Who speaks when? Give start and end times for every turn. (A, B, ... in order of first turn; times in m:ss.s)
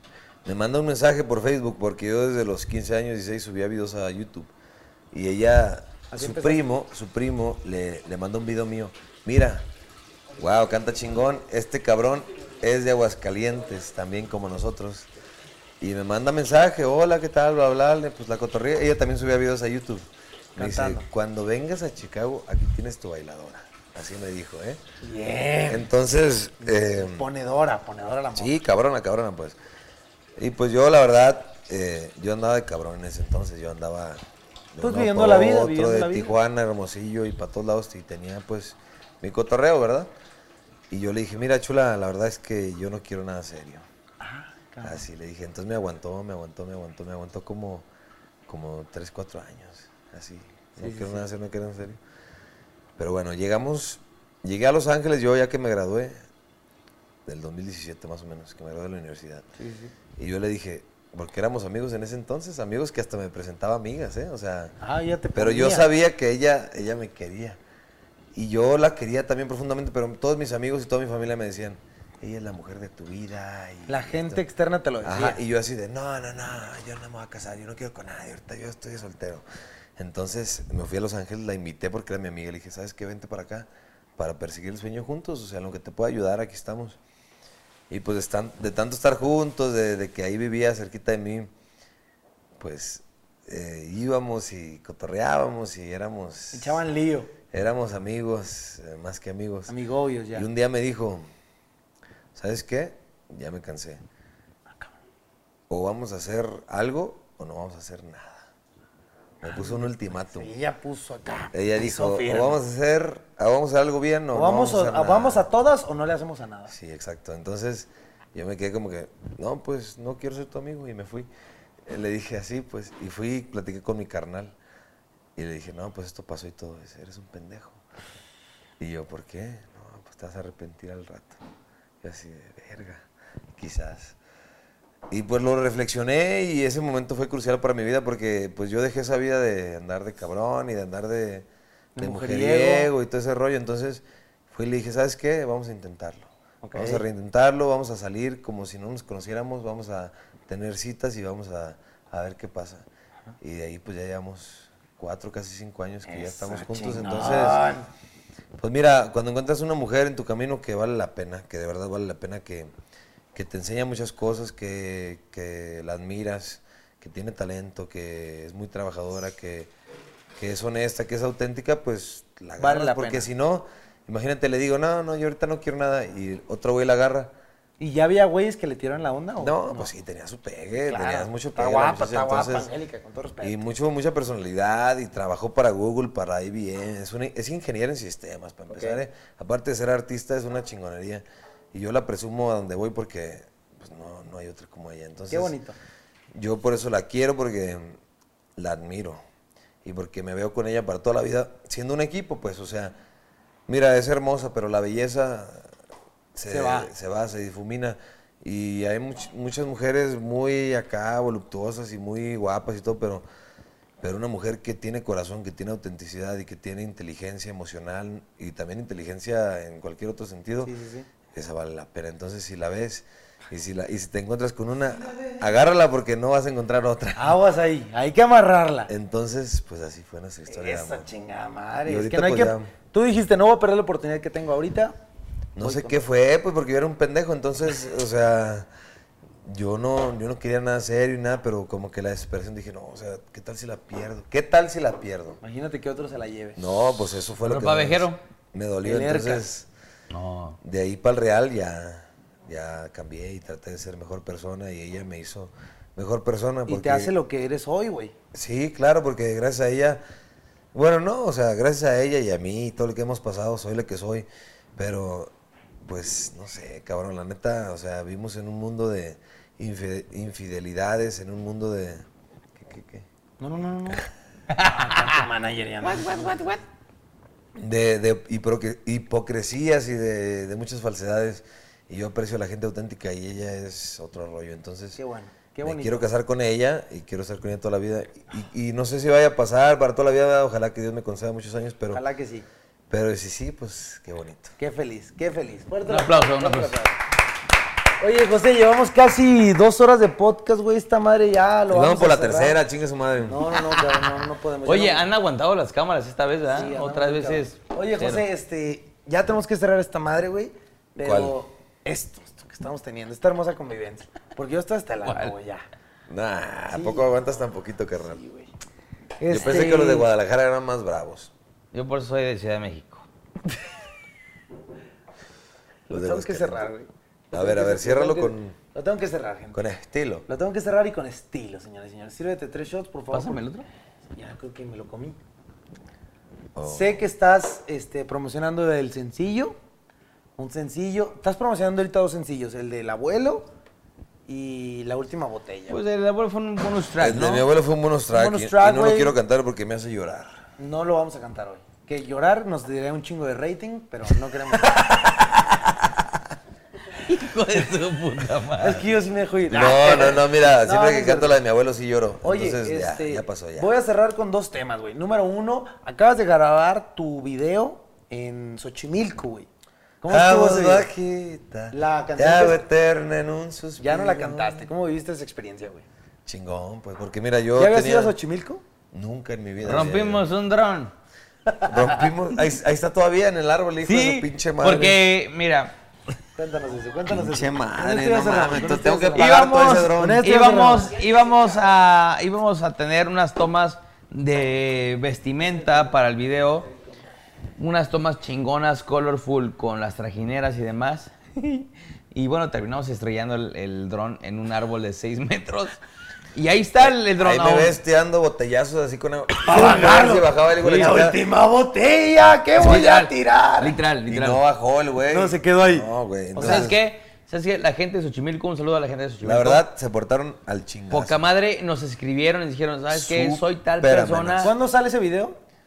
0:00.4-0:04.5 A
0:05.1-0:09.6 A
0:06.1-0:06.8 B
0:10.4-0:15.1 A
0:15.8-0:24.8 A
0:20.6-0:21.0 B
0:25.0-0:25.9 B
0:25.7-0:27.3 A
0:26.6-0:28.6 B
0:28.3-0:29.6 A
0:30.4-0:34.2 A
0:34.7-0:40.1 A
0:34.8-0:36.3 B
0:40.9-0:43.8 A
0:44.2-0:45.0 B
0:44.8-0:47.9 A
0:48.5-0:52.0 A
0:50.7-0:51.3 B
0:53.0-0:56.2 A
0:57.2-0:59.4 A
0:59.6-0:59.9 B
1:00.2-1:04.8 A
1:04.8-1:05.9 B
1:05.3-1:07.6 A
1:08.3-1:14.4 A
1:13.9-1:15.4 B
1:15.0-1:19.4 A
1:20.0-1:27.0 A
1:27.9-1:31.5 A
1:32.6-1:36.8 A
1:36.5-1:37.3 B
1:37.5-1:39.7 A
1:39.7-1:40.5 B
1:40.3-1:41.2 A
1:42.3-1:44.0 A
1:44.7-1:44.9 B
1:45.7-1:48.5 A
1:49.4-1:50.5 A
1:49.4-1:52.6 B
1:51.5-1:55.4 A
1:54.3-1:56.7 B
1:56.7-2:01.3 A
2:01.8-2:04.6 A
2:05.4-2:07.8 A
2:08.8-2:11.4 A
2:12.0-2:13.0 A
2:13.6-2:14.2 A
2:15.1-2:21.5 A
2:22.0-2:22.9 B
2:22.0-2:32.8 A
2:26.6-2:27.0 B
2:33.4-2:37.6 A
2:36.0-2:37.9 B
2:38.6-2:42.7 A
2:43.3-2:49.7 A
2:50.4-2:57.3 A
2:52.6-2:53.3 B
2:57.8-2:59.9 B
2:59.4-3:02.7 A
3:00.8-3:03.6 B
3:03.4-3:15.6 A
3:08.7-3:09.0 B
3:15.3-3:15.8 B
3:16.3-3:18.0 A
3:18.6-3:19.2 A
3:19.8-3:23.0 A
3:23.7-3:25.7 A
3:26.3-3:33.2 A
3:26.5-3:26.9 B
3:34.0-3:40.7 A
3:40.6-3:41.1 B
3:41.3-3:47.4 A
3:47.2-3:48.9 B
3:48.9-3:51.1 A
3:50.5-3:54.9 B
3:51.8-3:52.7 A
3:55.6-3:58.7 A
3:55.6-3:56.0 B
3:59.4-4:05.4 A
4:05.4-4:06.6 B
4:06.6-4:09.7 A
4:07.4-4:08.2 C
4:08.8-4:09.4 B
4:10.1-4:10.6 C
4:10.6-4:17.1 A
4:16.7-4:18.1 B
4:18.3-4:20.0 A
4:20.7-4:25.3 A
4:25.8-4:32.0 A
4:32.6-4:33.1 A
4:33.4-4:36.4 B
4:34.5-4:34.9 C
4:35.8-4:36.6 C
4:37.6-4:45.0 A
4:45.0-4:46.1 B
4:45.6-4:52.0 A
4:51.9-4:52.5 B
4:52.9-4:54.5 A
4:54.6-4:57.0 B
4:55.8-4:56.8 C
4:58.0-5:02.6 B
5:01.7-5:03.4 A
5:03.2-5:05.1 B
5:04.6-5:08.2 C
5:06.5-5:15.6 B
5:11.0-5:11.4 A
5:15.0-5:15.3 C
5:16.1-5:18.2 A
5:16.7-5:17.1 B
5:18.0-5:18.5 B
5:19.2-5:20.1 B
5:19.3-5:21.3 A
5:21.7-5:23.0 C
5:25.9-5:29.6 B
5:25.9-5:26.7 A
5:27.3-5:28.6 A
5:29.5-5:30.2 A
5:30.3-5:33.4 B
5:33.1-5:33.6 C
5:34.2-5:35.2 B
5:36.5-5:37.0 A
5:36.6-5:39.6 B
5:40.4-5:43.5 B
5:44.3-5:45.8 B
5:45.7-5:47.5 C
5:47.0-5:50.4 A
5:48.1-5:49.2 B
5:50.6-5:54.9 B
5:54.6-5:55.6 A
5:57.0-5:58.9 C
5:58.6-6:01.4 B
5:59.5-6:03.7 A
6:02.2-6:09.5 B
6:10.0-6:10.9 B
6:10.1-6:14.7 A
6:11.7-6:12.6 B
6:13.8-6:15.8 B
6:16.2-6:18.2 A
6:17.6-6:18.6 B
6:18.9-6:20.3 A
6:19.6-6:20.9 C
6:21.6-6:25.0 A
6:23.8-6:25.7 C
6:26.4-6:30.9 B
6:27.1-6:30.3 A
6:29.1-6:36.7 C
6:37.6-6:45.8 C
6:46.3-6:47.8 C
6:46.8-6:51.2 A
6:49.4-6:53.8 B
6:52.6-6:54.4 C
6:54.0-6:56.8 A
6:55.1-6:56.7 B
6:56.4-6:59.6 C
6:59.2-7:01.2 A
7:00.9-7:04.5 C
7:02.9-7:04.5 A
7:04.4-7:05.4 B